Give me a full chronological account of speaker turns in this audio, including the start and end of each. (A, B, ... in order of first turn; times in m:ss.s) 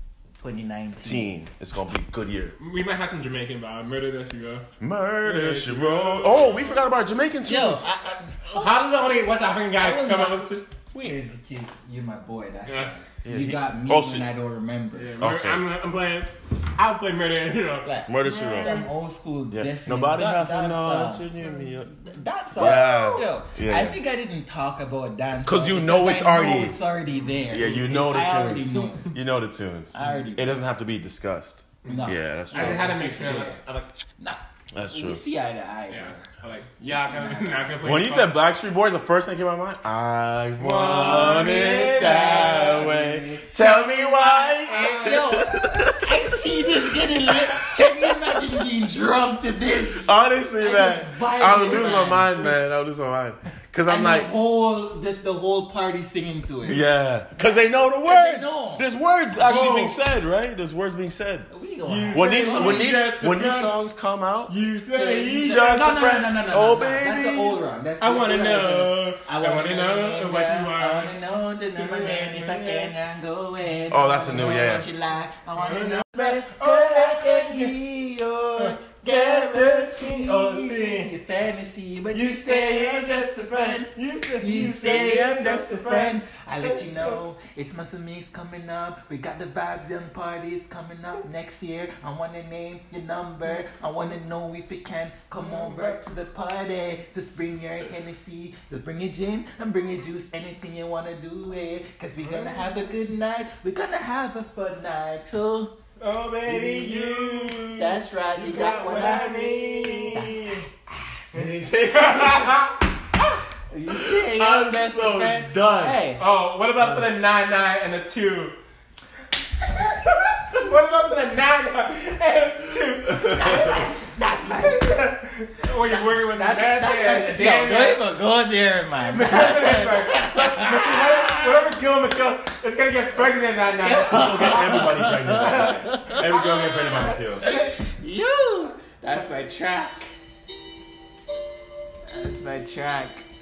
0:00.4-0:01.4 A
0:01.0-0:02.6 B
0:02.6-0:04.6 C
0:04.8-0:07.9 B
0:05.2-0:06.8 C
0:07.4-0:08.8 A
0:08.4-0:11.2 C
0:09.7-0:15.2 A
0:12.7-0:12.9 C
0:13.2-0:14.3 B
0:14.9-0:18.9 C
0:15.2-0:15.7 B
0:17.8-0:29.2 A
0:18.1-0:18.8 B
0:19.5-0:22.0 B
0:22.5-0:24.0 B
0:22.6-0:23.3 C
0:25.4-0:26.8 B
0:27.1-0:27.5 C
0:27.5-0:33.0 B
0:29.9-0:30.6 A
0:31.8-0:33.9 C
0:31.9-0:33.6 A
0:34.2-0:36.3 A
0:34.7-0:35.2 B
0:35.9-0:38.3 C
0:36.9-0:37.8 A
0:37.8-0:46.4 B
0:40.6-0:42.6 C
0:41.0-0:52.5 A
0:44.7-0:45.4 C
0:47.3-0:48.3 B
0:50.0-0:54.3 B
0:53.8-0:56.8 A
0:56.6-1:01.5 B
0:57.4-0:58.9 A
0:59.4-1:00.0 C
1:01.5-1:03.0 A
1:01.8-1:03.7 C
1:02.1-1:07.6 B
1:04.5-1:05.7 C
1:05.5-1:45.7 A
1:08.0-1:11.2 C
1:11.9-1:12.4 C
1:12.0-1:12.9 B
1:13.9-1:14.9 B
1:15.6-1:17.8 C
1:18.6-1:21.1 C
1:22.1-1:27.2 C
1:35.4-1:36.0 C
1:42.2-1:42.7 C
1:46.0-1:50.3 C
1:46.5-1:47.6 B
1:47.8-1:49.5 A
1:48.4-1:50.7 B
1:50.1-1:51.5 A
1:51.3-1:52.6 B
1:51.9-1:52.8 C
1:53.7-1:56.2 A
1:53.9-1:56.0 B
1:56.2-1:58.6 C
1:56.8-1:57.1 B
2:00.0-2:03.8 C
2:03.1-2:03.3 B
2:03.2-2:05.1 A
2:04.5-2:08.0 C
2:05.9-2:11.7 A
2:09.0-2:14.8 C
2:13.8-2:20.1 A
2:13.9-2:17.5 B
2:15.4-2:15.7 C
2:22.1-2:23.3 A